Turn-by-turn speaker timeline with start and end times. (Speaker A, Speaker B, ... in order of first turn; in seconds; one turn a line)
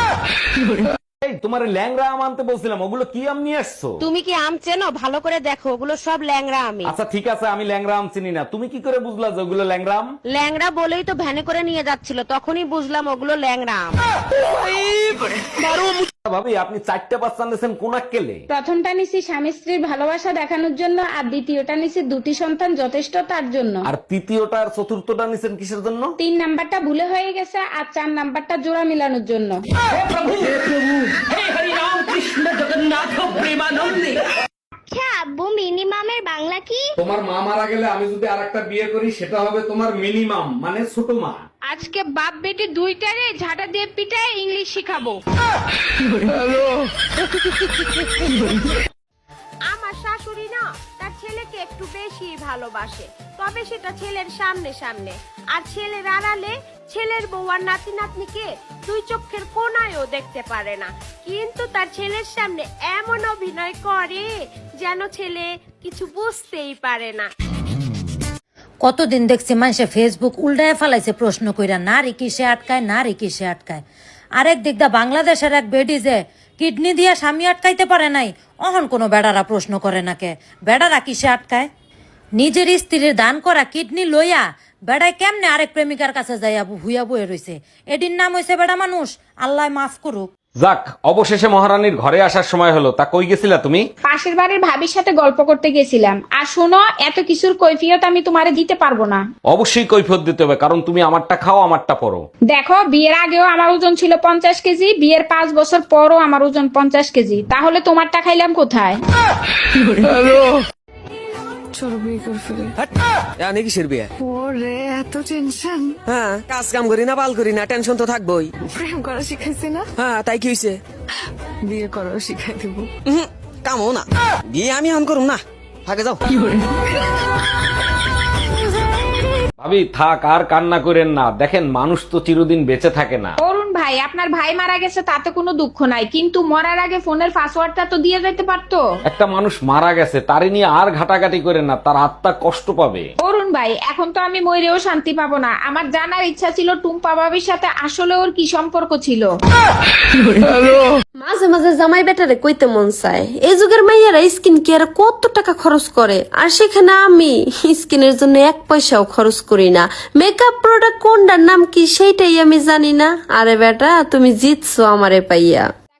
Speaker A: 1.2-4.0
Speaker B: 4.0-6.9
Speaker A: 6.8-10.1
Speaker B: 10.3-13.9
Speaker B: 15.6-15.9
Speaker A: 16.2-18.4
Speaker C: 18.5-23.8
Speaker A: 23.9-26.1
Speaker C: 26.2-29.6
Speaker D: 34.9-36.9
Speaker A: 37.0-41.4
Speaker C: 41.7-45.2
Speaker E: 49.7-64.3
Speaker E: 64.8-67.3
Speaker F: 68.8-73.8
Speaker F: 74.4-81.7
Speaker F: 82.4-90.3
Speaker A: 90.6-93.8
Speaker C: 94.0-99.2
Speaker A: 99.5-102.2
Speaker C: 102.5-109.0
Speaker G: 111.7-112.7
Speaker H: 112.8-114.1
Speaker G: 114.2-116.0
Speaker H: 116.1-118.5
Speaker G: 118.8-119.8
Speaker H: 120.0-120.8
Speaker G: 121.6-122.9
Speaker H: 123.1-126.2
Speaker A: 129.6-133.3
Speaker C: 133.4-138.8
Speaker A: 139.1-143.1
Speaker C: 143.2-149.3
Speaker I: 151.2-165.7